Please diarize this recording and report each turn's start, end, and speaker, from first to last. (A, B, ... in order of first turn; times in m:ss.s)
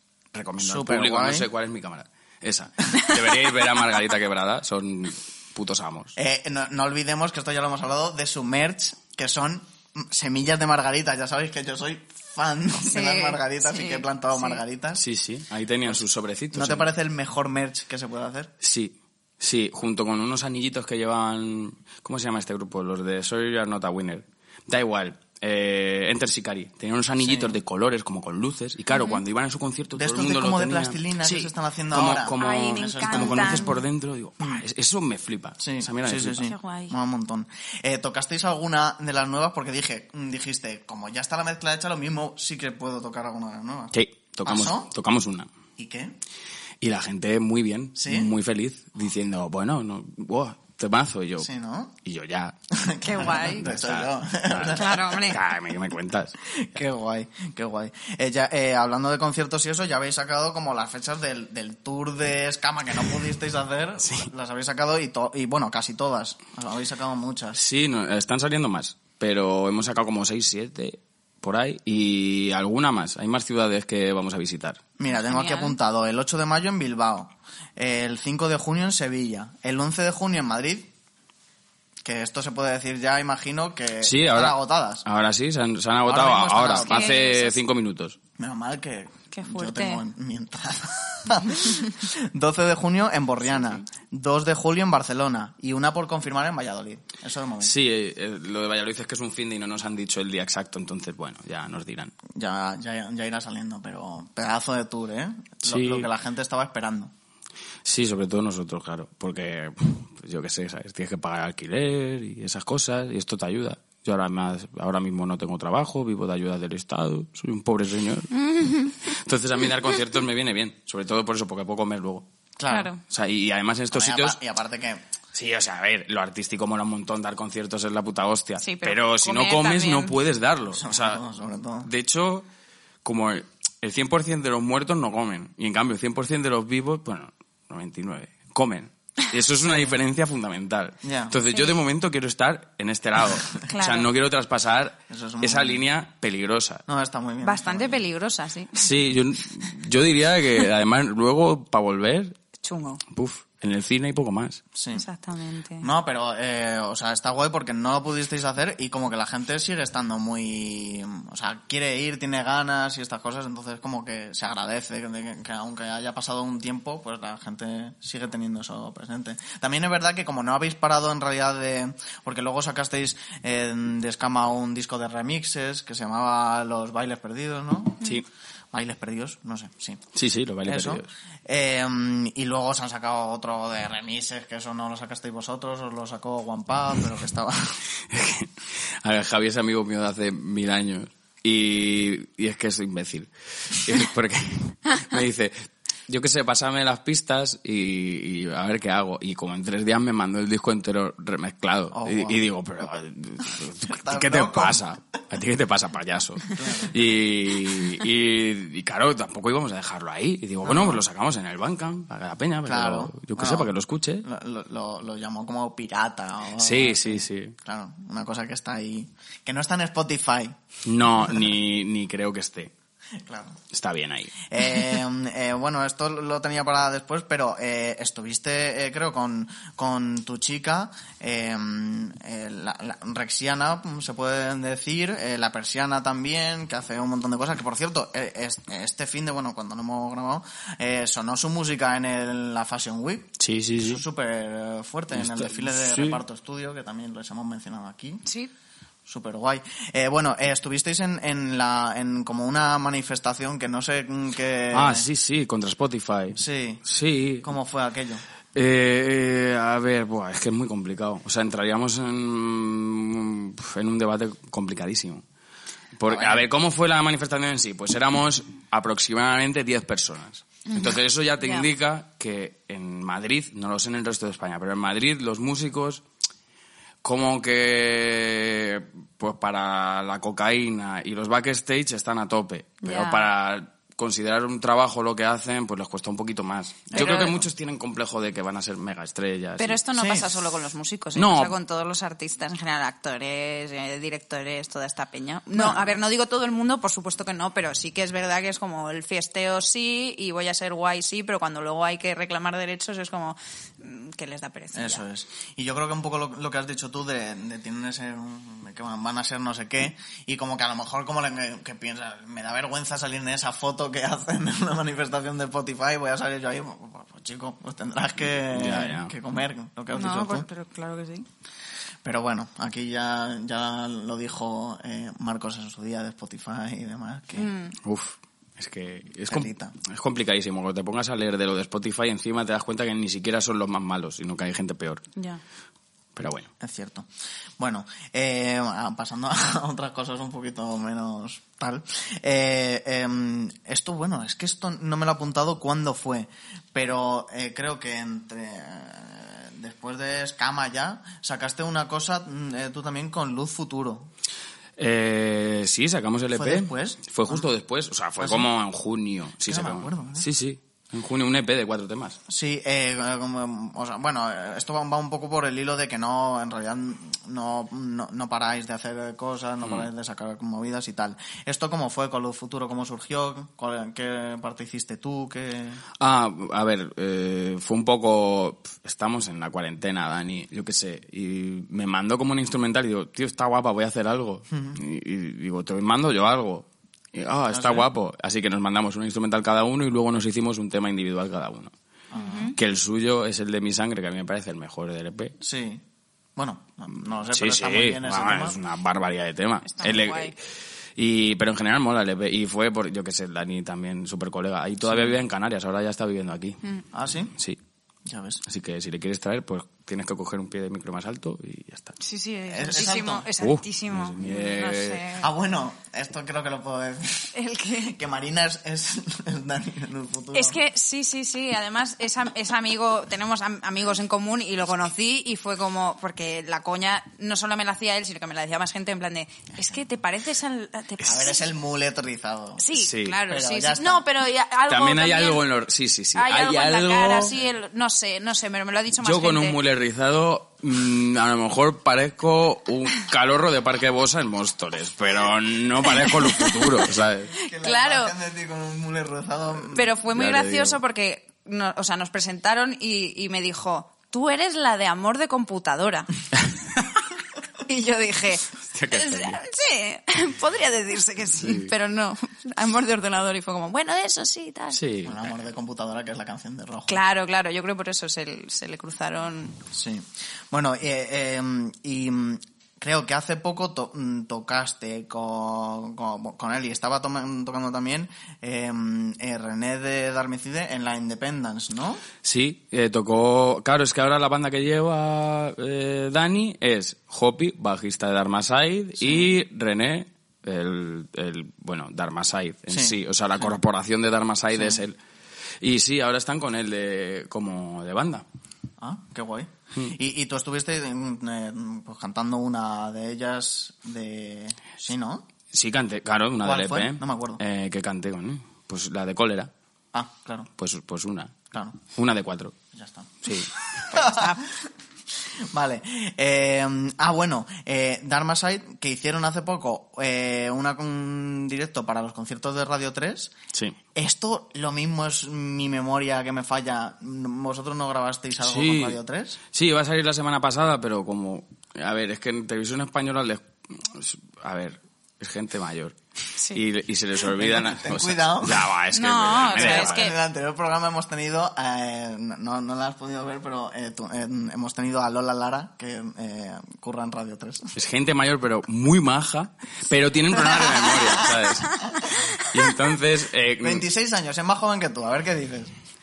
0:00.3-0:06.2 A
0:00.6-0:01.5 B
0:06.2-0:15.0 B
0:12.8-0:14.6 C
0:15.0-0:16.9 A
0:16.5-0:18.5 B
0:18.6-0:36.4 A
0:27.2-0:27.6 B
0:28.9-0:29.2 C
0:30.0-0:33.7 B
0:32.4-0:33.8 C
0:34.4-0:34.6 B
0:35.6-0:44.9 B
0:36.4-0:36.9 C
0:43.9-0:45.5 A
0:45.8-0:46.1 B
0:46.8-0:51.5 A
0:48.0-0:48.3 B
0:51.4-0:51.9 B
0:52.0-0:52.6 A
0:52.7-0:55.2 B
0:53.0-0:53.7 C
0:53.3-0:56.4 A
0:54.8-0:55.4 C
0:56.5-1:07.6 B
1:04.0-1:04.3 A
1:07.6-1:14.8 A
1:15.0-1:20.9 B
1:15.1-1:15.8 C
1:22.0-1:25.0 B
1:24.0-1:28.2 A
1:26.0-1:27.2 B
1:26.8-1:27.6 C
1:28.4-1:37.7 B
1:29.3-1:30.0 C
1:37.6-1:42.1 A
1:42.4-1:47.1 B
1:45.6-1:46.1 A
1:47.8-1:58.3 A
1:58.3-1:59.1 C
1:59.0-2:02.3 A
2:02.6-2:02.9 B
2:02.7-2:03.0 C
2:03.0-2:04.4 A
2:03.9-2:05.0 B
2:05.3-2:11.2 A
2:08.6-2:10.2 C
2:10.7-2:11.9 B
2:11.8-2:12.5 A
2:13.0-2:26.8 A
2:21.0-2:21.4 B
2:23.6-2:24.1 C
2:25.1-2:25.8 B
2:26.9-2:28.0 B
2:27.4-2:29.0 C
2:28.8-2:32.4 A
2:32.6-2:33.0 C
2:33.1-2:34.6 A
2:34.8-2:35.0 B
2:34.9-2:35.9 C
2:35.8-2:58.1 B
2:58.7-3:00.0 B
3:00.1-3:01.1 A
3:00.6-3:07.8 B
3:08.1-3:34.2 A
3:21.9-3:22.5 B
3:23.8-3:24.8 B
3:26.5-3:27.1 B
3:30.6-3:31.0 B
3:32.7-3:40.6 B
3:36.6-3:37.6 A
3:40.8-3:42.7 A
3:41.1-3:41.4 B
3:43.2-3:43.6 B
3:43.7-3:44.3 A
3:44.4-4:08.2 B
4:03.4-4:04.0 A
4:05.1-4:06.2 A
4:08.3-4:08.5 C
4:09.1-4:15.1 B
4:14.7-4:17.5 A
4:16.4-4:16.8 B
4:17.4-4:18.2 B
4:18.5-4:25.2 A
4:26.0-4:36.0 A
4:26.1-4:26.5 B
4:30.7-4:31.7 C
4:37.0-4:49.8 A
4:42.8-4:43.3 C
4:46.9-4:47.4 B
4:46.9-4:47.4 C
4:49.6-5:05.0 C
4:50.0-4:50.3 B
4:51.2-4:51.6 A
5:04.8-5:20.5 B
5:18.4-5:19.1 A
5:19.9-5:21.3 C
5:22.0-5:27.5 B
5:27.4-5:27.8 C
5:27.8-5:35.0 A
5:29.3-5:29.8 B
5:35.2-5:35.4 C
5:36.2-5:36.5 A
5:36.6-5:37.1 B
5:37.6-5:54.1 B
5:54.8-6:02.2 A
5:56.3-5:57.5 B
5:58.2-5:58.5 B
5:59.5-6:00.3 B
6:02.3-6:15.8 B
6:09.6-6:09.9 A
6:16.0-6:31.7 A
6:24.5-6:24.8 B
6:27.5-6:27.9 B
6:32.1-6:32.6 B
6:32.2-6:32.6 C
6:32.6-6:35.4 A
6:35.4-6:35.8 B
6:36.4-6:38.6 B
6:37.3-6:40.4 A
6:39.6-6:40.3 C
6:41.0-6:46.6 A
6:44.8-6:45.2 B
6:46.9-6:47.3 B
6:48.1-6:48.4 B
6:48.4-6:52.0 A
6:52.0-6:55.3 C
6:52.5-6:53.3 B
6:53.4-6:55.1 A
6:55.2-7:00.6 B
6:57.3-6:58.0 C
7:00.3-7:11.4 C
7:11.0-7:12.6 B
7:12.6-7:15.4 C
7:12.7-7:13.2 A
7:13.3-7:14.0 B
7:14.7-7:17.4 A
7:16.2-7:19.6 C
7:19.0-7:27.3 A
7:25.9-7:28.1 C
7:27.3-7:29.9 B
7:29.7-7:36.1 C
7:30.1-7:30.8 A
7:37.6-7:44.8 C
7:38.7-7:39.4 A
7:41.4-7:41.7 A
7:44.7-7:45.4 A
7:45.0-7:47.0 B
7:46.9-7:49.6 C
7:49.7-8:02.0 B
8:02.2-8:15.0 A
8:09.0-8:09.3 B
8:12.7-8:13.5 B
8:14.5-8:14.8 B
8:15.6-8:18.2 A
8:18.8-8:25.2 B
8:25.5-8:29.5 A
8:26.4-8:27.4 B
8:29.9-8:30.5 B
8:30.6-8:31.4 A
8:31.5-8:31.8 B
8:31.9-8:32.6 A
8:32.7-8:33.2 B
8:33.2-8:33.5 A
8:33.8-8:34.7 B
8:33.9-8:34.4 C
8:35.5-8:43.3 B
8:44.0-8:49.4 B
8:48.4-8:49.0 A
8:49.5-8:56.0 A
8:56.5-9:00.1 A
8:57.4-8:58.7 B
8:58.9-9:00.2 C
8:59.5-9:07.8 B
9:07.8-9:13.9 A
9:10.3-9:12.3 B
9:13.6-9:15.7 B